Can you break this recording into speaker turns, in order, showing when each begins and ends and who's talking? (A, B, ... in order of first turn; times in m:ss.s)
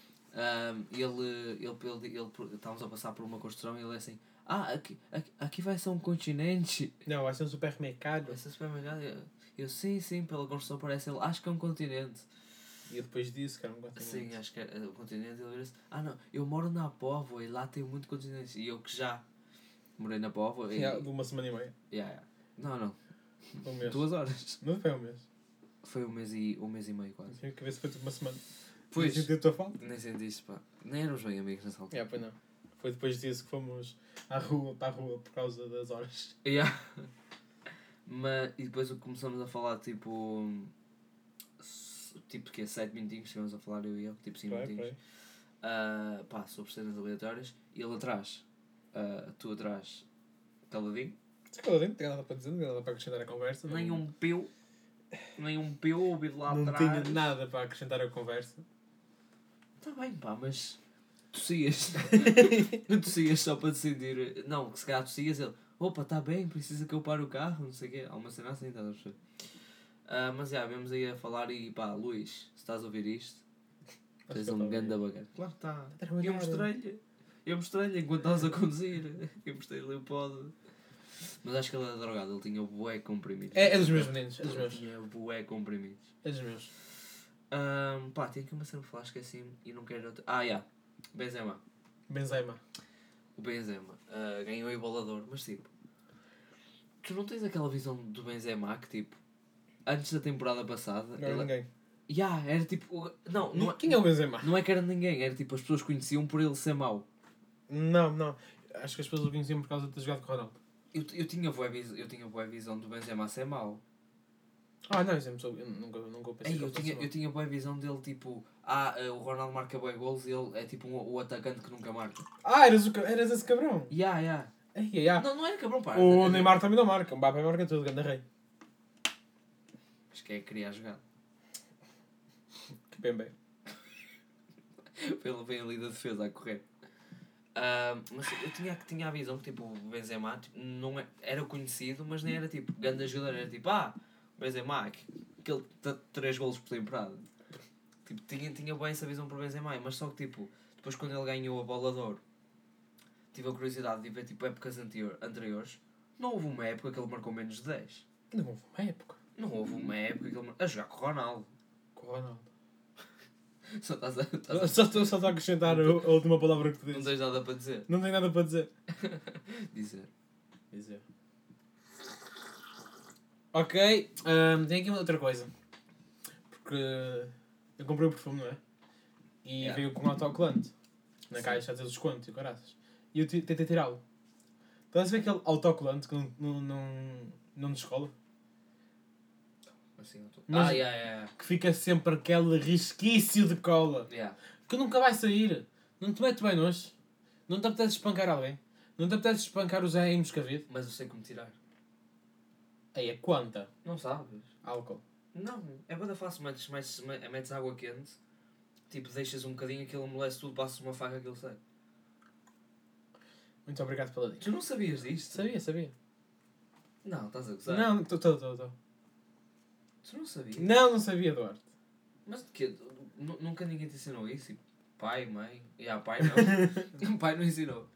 0:00.3-0:07.0 A
0:07.0-0:08.4 B
0:08.3-0:12.3 A
0:12.9-0:14.3 B
0:14.0-0:19.2 A
0:20.0-0:21.0 A
0:20.7-0:21.7 B
0:21.9-0:23.0 A
0:23.5-0:24.6 A
0:23.6-0:24.0 B
0:24.6-0:25.2 B
0:25.8-0:27.4 A
0:27.3-0:28.4 B
0:28.9-0:32.0 A
0:28.9-0:29.8 B
0:31.9-0:36.4 B
0:36.4-0:37.1 A
0:38.0-0:40.7 A
0:41.6-0:44.9 A
0:44.5-0:45.0 B
0:45.6-0:50.0 A
0:50.7-0:51.2 A
0:51.5-0:54.0 B
0:53.6-0:54.5 A
0:55.4-0:57.3 A
0:56.5-0:58.6 B
0:59.8-1:00.8 A
1:01.3-1:09.2 A
1:02.2-1:02.6 B
1:10.1-1:13.4 A
1:14.3-1:15.0 B
1:14.3-1:20.5 A
1:16.0-1:16.7 B
1:21.4-1:26.1 A
1:23.5-1:24.8 B
1:26.2-1:26.7 B
1:27.5-1:31.6 A
1:32.1-1:32.6 B
1:33.4-1:35.7 A
1:37.0-1:39.2 A
1:39.8-1:41.5 A
1:41.2-1:41.7 B
1:42.1-1:47.0 A
1:43.5-1:44.5 B
1:47.7-1:50.6 B
1:50.9-1:53.8 A
1:54.9-1:57.1 B
1:56.4-2:02.2 A
2:02.4-2:03.9 B
2:03.9-2:04.5 A
2:04.7-2:05.2 B
2:05.2-2:06.6 A
2:05.9-2:08.2 B
2:10.1-2:11.0 A
2:12.9-2:13.3 B
2:15.0-2:16.6 A
2:17.5-2:27.2 A
2:28.0-2:32.2 A
2:33.3-2:38.0 A
2:38.3-2:39.2 B
2:39.4-2:41.5 A
2:41.9-2:42.4 B
2:43.7-2:46.1 A
2:44.5-2:47.2 B
2:46.9-2:47.9 A
2:47.9-2:48.7 B
2:48.9-2:50.1 A
2:50.7-2:51.0 B
2:53.5-2:55.5 B
2:56.5-2:58.6 B
2:59.4-3:00.7 B
2:59.6-2:59.8 A
3:01.3-3:04.0 B
3:01.3-3:01.6 A
3:04.9-3:08.1 B
3:10.0-3:11.3 A
3:10.5-3:14.1 B
3:14.1-3:14.4 A
3:14.7-3:16.9 B
3:17.5-3:20.6 B
3:20.7-3:21.6 A
3:22.9-3:23.7 B
3:23.8-3:24.5 A
3:24.6-3:25.0 B
3:25.3-3:28.2 A
3:28.9-3:31.6 A
3:33.6-3:34.4 B
3:34.4-3:35.5 A
3:35.3-3:35.9 B
3:37.0-3:38.0 A
3:37.7-3:38.7 B
3:40.0-3:40.7 A
3:40.6-3:41.6 B
3:42.2-3:47.9 A
3:46.2-3:46.8 B